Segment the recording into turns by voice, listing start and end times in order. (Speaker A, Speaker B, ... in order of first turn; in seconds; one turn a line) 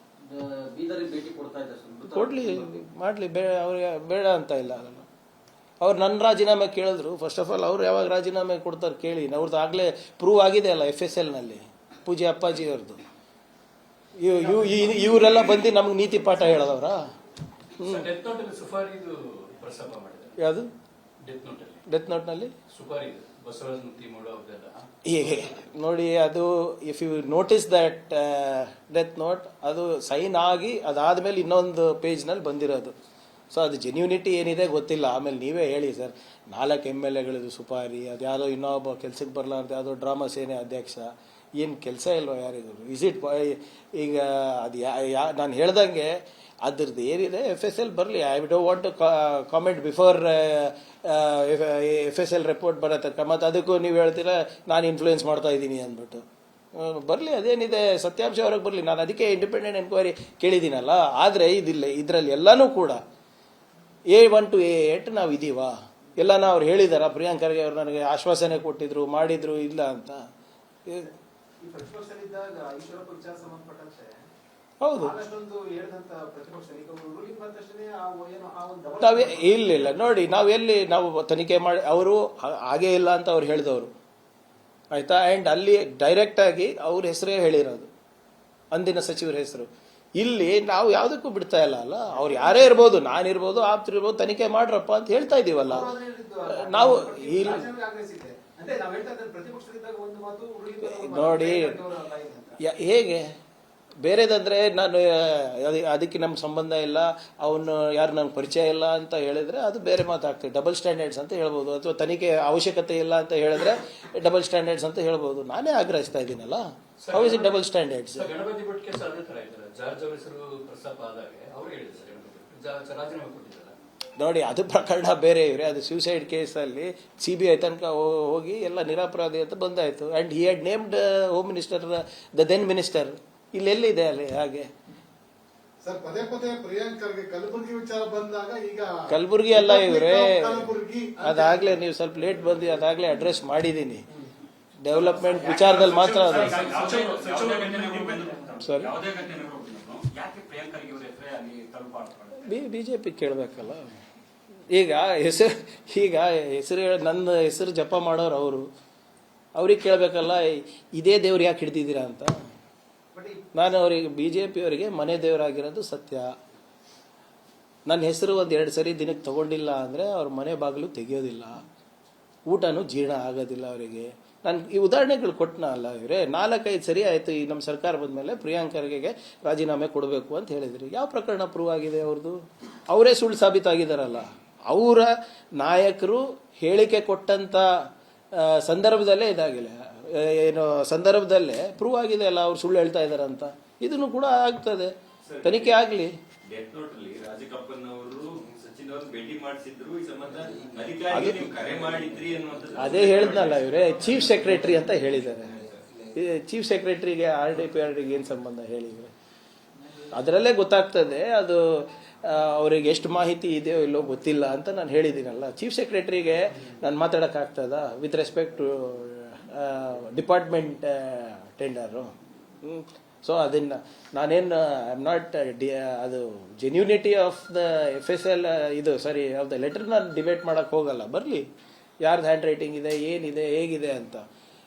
Speaker A: 0.3-2.7
Speaker B: 2.1-5.1
Speaker B: 5.8-13.0
Speaker B: 14.2-17.1
Speaker B: 17.8-18.1
Speaker C: 17.8-20.4
Speaker B: 20.4-20.7
Speaker C: 21.2-21.8
Speaker B: 21.9-22.5
Speaker C: 22.7-24.9
Speaker B: 25.1-32.9
Speaker B: 33.5-56.2
Speaker B: 56.8-63.0
Speaker B: 64.1-70.2
Speaker D: 71.8-72.5
Speaker E: 71.9-74.0
Speaker D: 73.4-73.7
Speaker B: 74.8-75.2
Speaker D: 75.1-76.2
Speaker E: 75.9-77.6
Speaker D: 78.5-79.0
Speaker E: 78.9-79.2
Speaker B: 79.0-83.9
Speaker B: 84.9-87.9
Speaker B: 88.7-95.9
Speaker E: 95.8-102.5
Speaker B: 96.5-97.7
Speaker D: 97.4-97.8
Speaker B: 100.8-101.8
Speaker D: 101.0-101.8
Speaker B: 102.6-103.3
Speaker B: 104.0-118.3
Speaker C: 117.0-117.6
Speaker C: 118.2-123.8
Speaker B: 124.2-134.7
Speaker D: 135.8-138.9
Speaker B: 139.1-144.1
Speaker D: 139.5-141.8
Speaker B: 144.8-146.7
Speaker F: 145.1-152.5
Speaker C: 146.3-147.4
Speaker D: 146.6-148.2
Speaker B: 148.6-148.9
Speaker B: 152.4-153.9
Speaker B: 154.7-158.7
Speaker B: 159.6-162.3
Speaker B: 163.6-166.3
Speaker B: 167.9-171.6
Speaker B: 172.5-187.7
Speaker B: 188.3-196.1
Speaker F: 195.2-195.8
Speaker F: 196.4-204.7
Speaker B: 201.1-201.5
Speaker B: 202.8-205.5
Speaker F: 205.3-205.8
Speaker B: 206.2-209.1
Speaker B: 210.1-231.5
Speaker B: 232.0-234.2